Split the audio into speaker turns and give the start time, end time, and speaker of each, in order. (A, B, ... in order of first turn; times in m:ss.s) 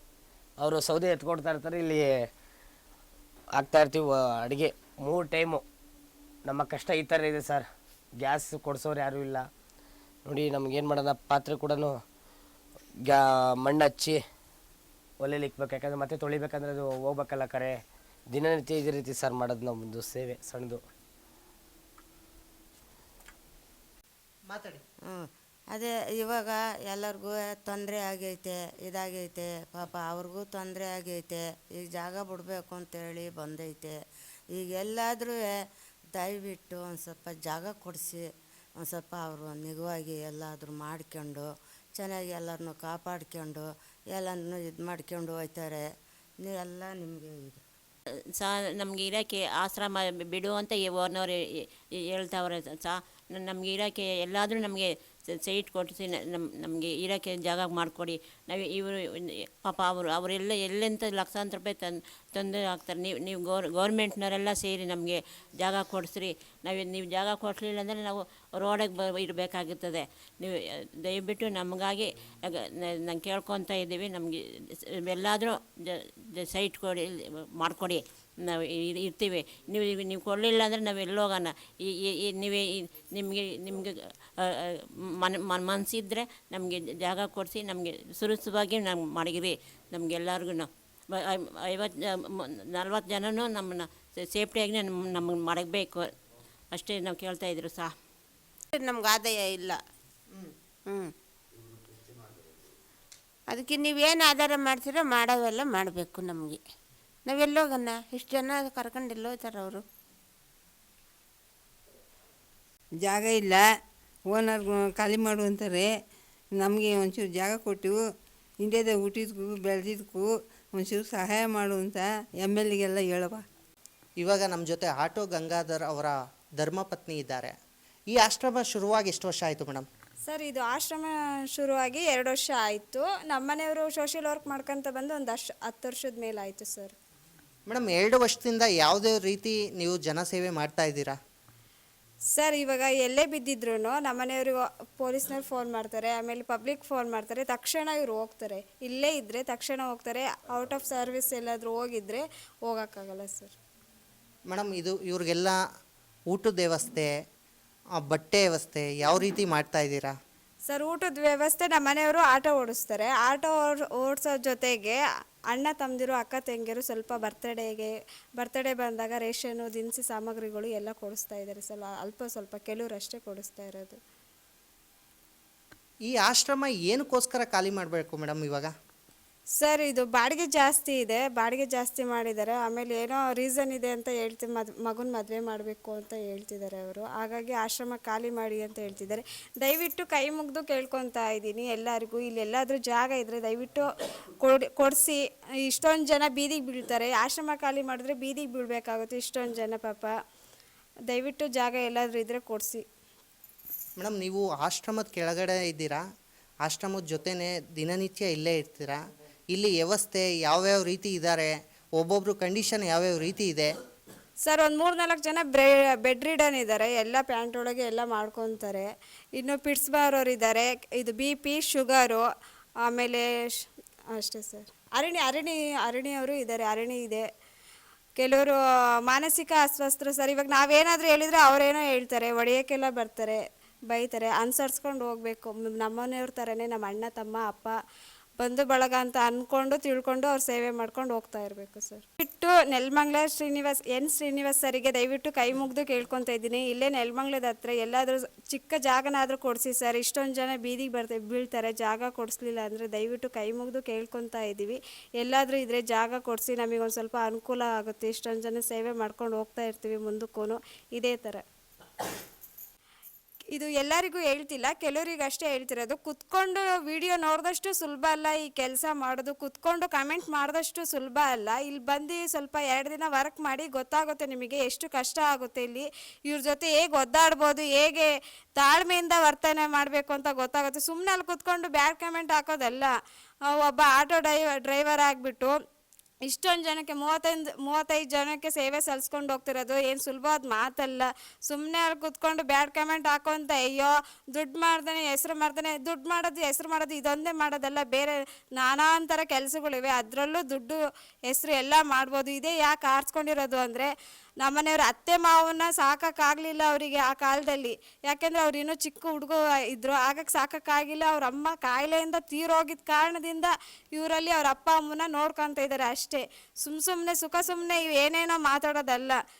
0:00.6-0:02.1 A
0:03.6-0:05.6 A
0:06.4-0:07.6 A
0:08.2-0:09.4 A
0:10.2-0:11.9 A
0:13.0-0:14.2 A
0:15.2-0:17.8 A
0:18.3-0:20.8 A
0:24.5-0:24.8 B
0:25.1-0:34.0 C
0:34.5-0:45.9 C
0:46.4-0:47.6 C
0:48.4-0:51.4 D
0:52.0-1:36.0 D
1:36.7-1:37.9 D
1:38.7-1:39.8 E
1:43.5-1:46.6 E
1:47.2-1:49.8 E
1:53.0-1:53.6 F
1:54.3-1:55.9 F
1:56.6-1:58.0 F
1:58.6-2:00.2 F
2:00.8-2:03.4 F
2:04.2-2:07.5 B
2:08.1-2:09.8 B
2:10.2-2:16.9 G
2:17.7-2:21.2 B
2:22.3-2:33.5 G
2:34.5-2:35.6 B
2:36.3-2:37.1 B
2:38.0-2:40.1 B
2:40.6-2:45.0 G
2:45.5-2:54.0 G
2:56.0-2:58.7 B
2:59.6-3:13.9 G
3:14.4-3:20.1 G
3:21.1-3:22.8 G
3:24.0-3:26.0 B
3:26.6-3:29.0 B
3:29.5-3:33.7 B
3:34.4-3:42.2 G
3:42.8-3:47.2 G
3:48.2-3:57.7 G
3:58.4-4:21.4 G
4:23.5-4:42.9 G
4:43.5-4:45.5 G
4:46.2-5:19.2 G